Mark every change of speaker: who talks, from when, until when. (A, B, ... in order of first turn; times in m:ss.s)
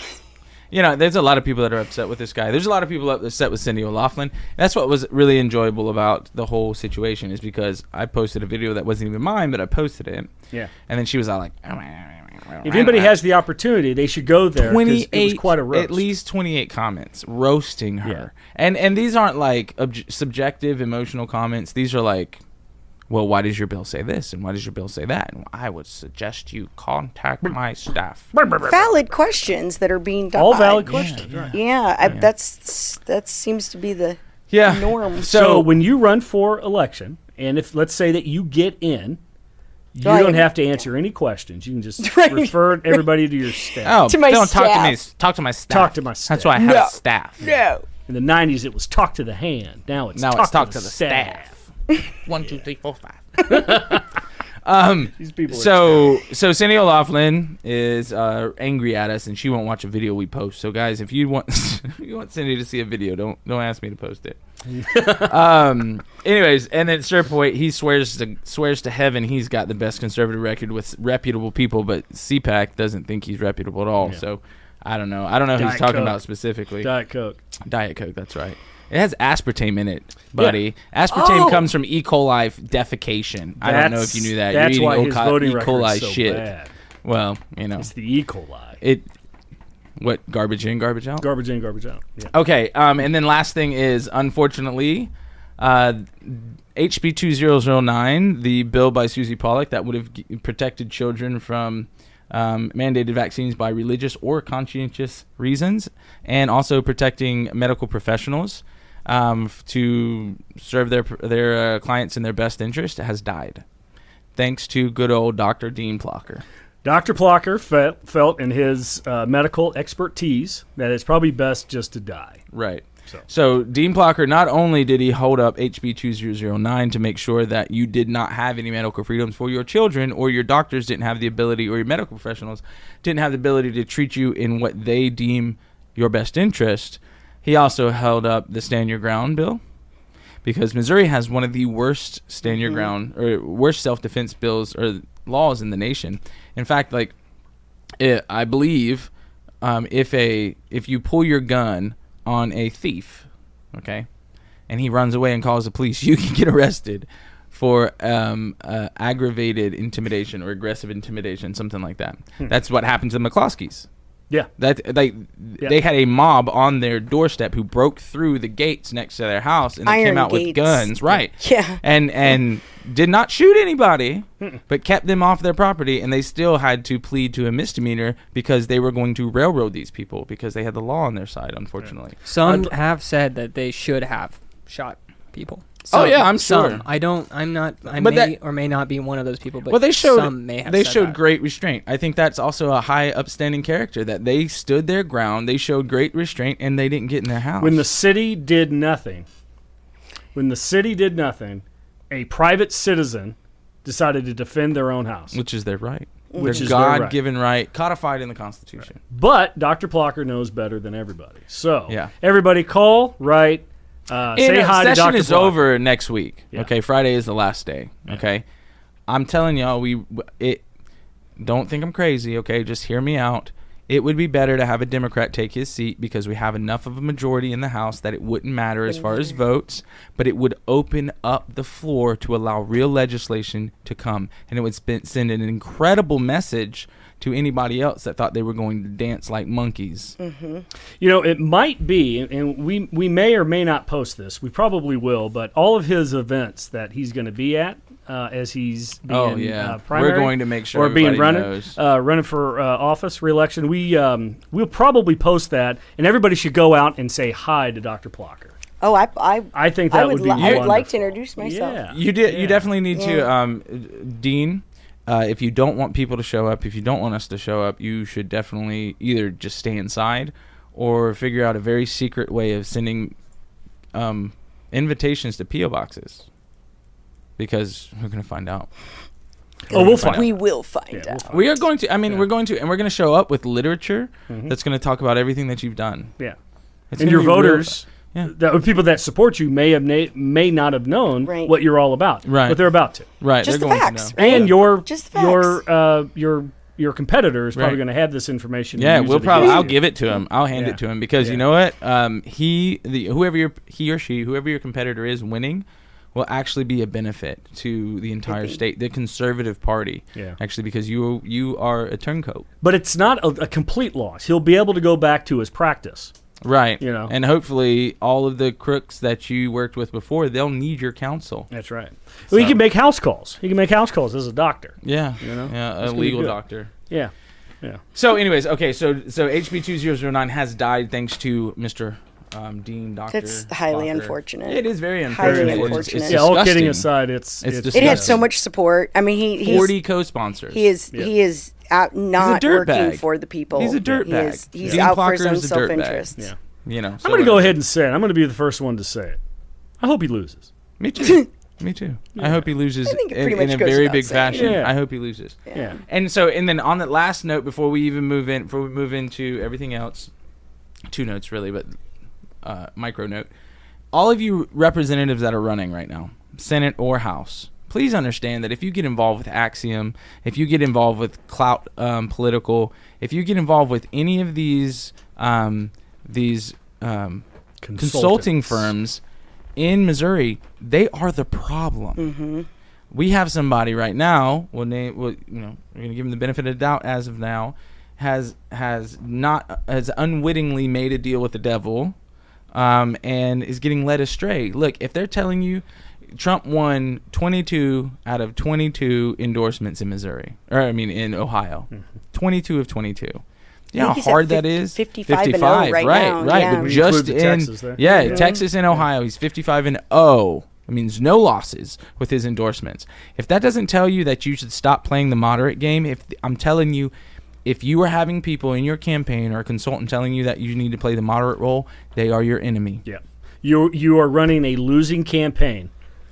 0:00.7-0:10.3 A
0:10.9-0:13.2 A
0:12.6-0:16.1 B
0:14.6-0:22.4 A
0:23.1-0:28.3 A
0:28.3-0:29.0 B
0:28.6-0:35.3 C
0:30.4-0:31.6 B
0:30.9-0:32.3 A
0:34.5-0:35.7 A
0:35.2-0:39.2 B
0:40.0-0:44.0 B
0:40.0-0:40.8 C
0:42.0-0:43.0 C
0:43.8-0:47.5 A
0:44.0-0:45.0 C
0:45.7-0:46.6 B
0:46.6-0:47.8 C
0:48.1-0:51.5 B
0:50.2-0:54.0 A
0:53.5-0:54.0 B
0:54.6-1:04.4 A
0:55.2-0:56.2 B
1:04.7-1:05.4 B
1:05.1-1:16.9 A
1:15.6-1:16.2 B
1:16.8-1:17.4 B
1:17.7-1:26.5 A
1:21.2-1:21.5 B
1:23.6-1:26.7 B
1:27.0-1:27.9 A
1:27.8-1:28.8 B
1:28.8-1:29.1 A
1:30.0-1:31.3 A
1:31.2-1:32.3 B
1:32.3-1:53.6 A
1:54.4-1:56.4 A
1:56.8-2:02.4 B
2:02.5-2:19.6 A
2:20.4-2:27.1 A
2:28.0-2:29.1 A
2:29.6-2:34.1 A
2:34.7-2:43.9 A
2:44.6-3:02.2 A
2:49.8-2:51.8 C
3:02.3-3:11.2 D
3:02.4-3:02.7 B
3:05.9-3:06.8 A
3:08.0-3:08.4 A
3:09.7-3:17.8 A
3:17.6-3:19.3 B
3:20.4-3:25.4 B
3:25.3-3:29.0 A
3:26.3-3:26.7 C
3:26.4-3:27.2 B
3:29.1-3:35.6 B
3:34.4-3:38.4 A
3:39.1-3:40.6 A
3:41.4-4:00.2 A
4:00.2-4:00.6 C
4:01.0-4:18.6 B
4:09.1-4:11.8 A
4:18.8-4:21.8 C
4:19.5-4:22.7 B
4:20.4-4:20.8 A
4:21.9-4:33.2 A
4:22.9-4:23.3 C
4:33.9-4:36.3 A
4:37.4-4:38.7 A
4:39.7-4:40.4 B
4:39.7-4:40.3 A
4:39.7-4:41.2 C
4:40.9-4:41.5 B
4:41.3-4:46.1 A
4:44.3-4:44.6 B
4:46.9-4:48.3 A
4:47.0-4:53.1 B
4:51.2-4:51.6 C
4:52.3-4:52.6 A
4:53.2-4:54.5 A
4:53.4-4:55.6 C
4:54.2-4:59.8 B
4:57.6-4:57.8 A
4:58.8-5:12.5 A
4:59.4-4:59.6 C
5:00.5-5:01.4 B
5:08.3-5:08.6 C
5:12.6-5:16.1 B
5:16.4-5:21.5 A
5:16.8-5:17.1 B
5:21.5-5:26.4 B
5:22.3-5:22.6 A
5:24.8-5:26.7 A
5:26.9-5:27.8 B
5:27.9-5:36.9 A
5:33.1-5:36.3 C
5:35.2-5:38.2 B
5:37.4-5:38.3 A
5:37.7-5:39.8 C
5:39.4-5:40.6 A
5:40.5-5:46.3 C
5:42.2-5:46.1 A
5:43.8-5:44.9 B
5:46.6-5:47.6 A
5:47.0-5:49.2 B
5:49.8-5:50.5 B
5:50.8-6:00.1 A
5:52.2-5:52.4 B
5:52.8-5:54.6 C
5:54.3-5:54.8 B
5:55.5-5:55.8 C
5:55.5-5:55.8 B
6:00.9-6:01.8 A
6:02.4-6:03.3 A
6:03.9-6:17.2 A
6:17.6-6:18.7 B
6:17.8-6:19.0 A
6:19.6-6:22.0 A
6:22.0-6:22.5 C
6:22.9-6:32.0 A
6:32.5-6:35.6 A
6:36.1-6:56.9 A
6:43.8-6:46.8 C
6:46.4-6:48.3 B
6:47.8-6:48.4 C
6:57.4-7:02.8 A
7:02.8-7:05.7 B